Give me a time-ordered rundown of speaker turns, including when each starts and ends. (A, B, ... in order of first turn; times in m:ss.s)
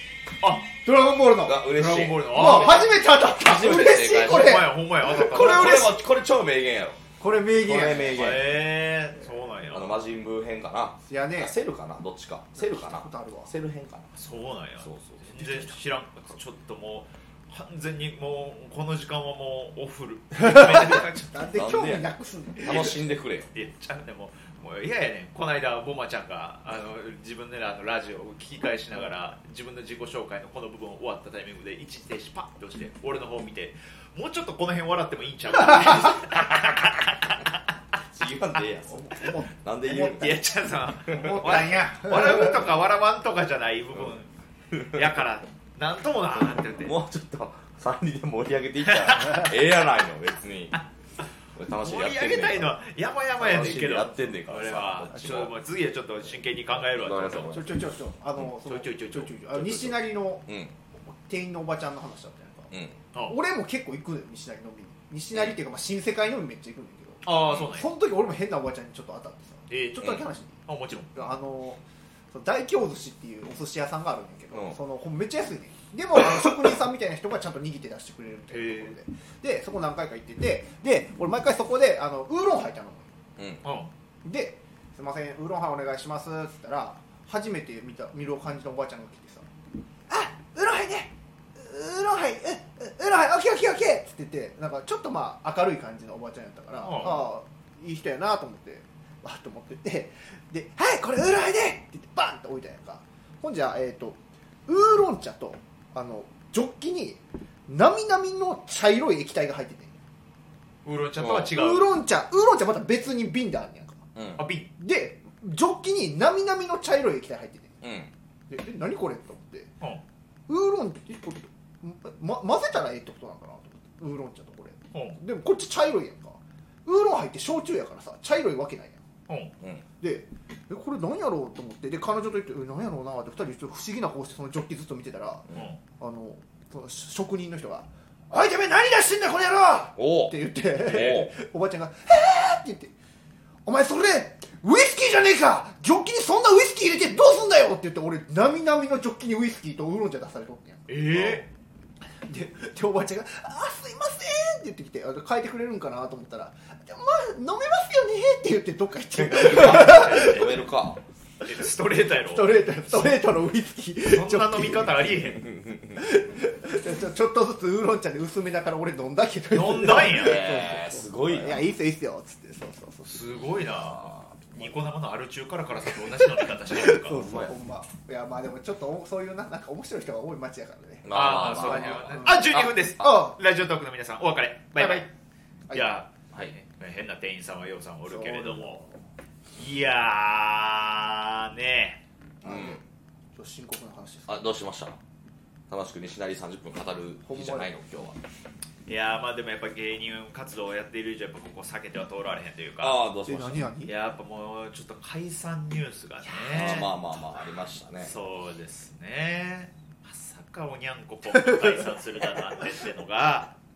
0:00.4-0:00.7 A
0:00.8-0:01.6 B
0:01.4-0:07.0 C
0:01.7-0:02.9 A
0:02.3-0:04.7 B
0:04.0-0:05.9 A
0:05.5-0:05.8 B
0:07.2-0:08.3 B
0:07.6-0:08.5 C
0:08.1-0:10.0 A
0:09.7-0:14.1 C
0:11.1-0:11.5 B
0:12.6-0:13.5 B
0:14.2-0:21.3 A
0:14.8-0:15.8 C
0:20.4-0:23.1 B
0:21.5-0:22.1 C
0:22.6-0:23.5 C
0:23.5-0:37.4 A
0:38.1-0:41.8 C
0:39.0-0:40.3 B
0:40.2-0:44.3 A
0:41.2-0:42.6 B
0:44.7-0:45.0 C
0:44.9-0:47.0 A
0:46.4-0:50.8 C
0:48.9-0:49.5 A
0:51.6-0:52.8 C
0:51.8-0:57.6 A
0:53.4-0:55.5 C
0:56.9-0:57.7 C
0:57.5-1:00.5 B
0:58.5-1:00.0 A
1:00.5-1:00.7 C
1:01.2-1:02.7 B
1:02.7-1:03.0 C
1:03.3-1:10.6 B
1:07.2-1:07.9 A
1:09.7-1:11.2 A
1:11.2-1:23.1 B
1:14.5-1:14.8 C
1:18.5-1:19.0 A
1:23.4-1:23.6 C
1:23.6-1:23.9 A
1:24.2-1:29.5 B
1:30.1-1:50.0 B
1:36.8-1:37.3 A
1:50.8-1:51.9 A
1:51.2-1:51.5 C
1:51.5-1:54.0 B
1:54.2-1:54.5 C
1:54.4-1:54.7 A
1:54.8-1:57.8 B
1:57.8-1:58.1 C
1:58.5-1:59.7 B
2:00.5-2:09.0 B
2:04.9-2:05.2 A
2:10.0-2:15.5 B
2:15.5-2:15.8 A
2:16.0-2:22.9 B
2:20.0-2:21.3 C
2:23.6-2:30.9 B
2:30.9-2:31.5 A
2:32.2-2:40.6 B
2:39.2-2:41.0 C
2:39.7-2:40.5 A
2:41.4-2:43.2 A
2:42.3-2:45.0 B
2:44.0-2:45.4 A
2:45.4-2:46.0 C
2:46.0-2:53.4 B
2:49.5-2:50.5 A
2:50.0-2:51.7 C
2:53.1-2:57.2 A
2:53.8-2:54.2 C
2:56.7-3:03.4 B
2:57.0-2:57.5 C
3:01.0-3:02.8 C
3:01.1-3:05.1 A
3:04.8-3:05.1 B
3:05.7-3:08.8 A
3:08.1-3:09.0 B
3:09.6-3:12.0 A
3:12.4-3:12.8 B
3:12.4-3:12.8 C
3:13.4-3:14.3 B
3:14.3-3:15.0 C
3:15.7-3:18.2 C
3:17.3-3:17.7 B
3:18.9-3:23.0 A
3:22.8-3:23.7 C
3:23.3-3:24.0 B
3:23.9-3:26.9 A
3:26.5-3:28.1 C
3:28.0-3:33.5 A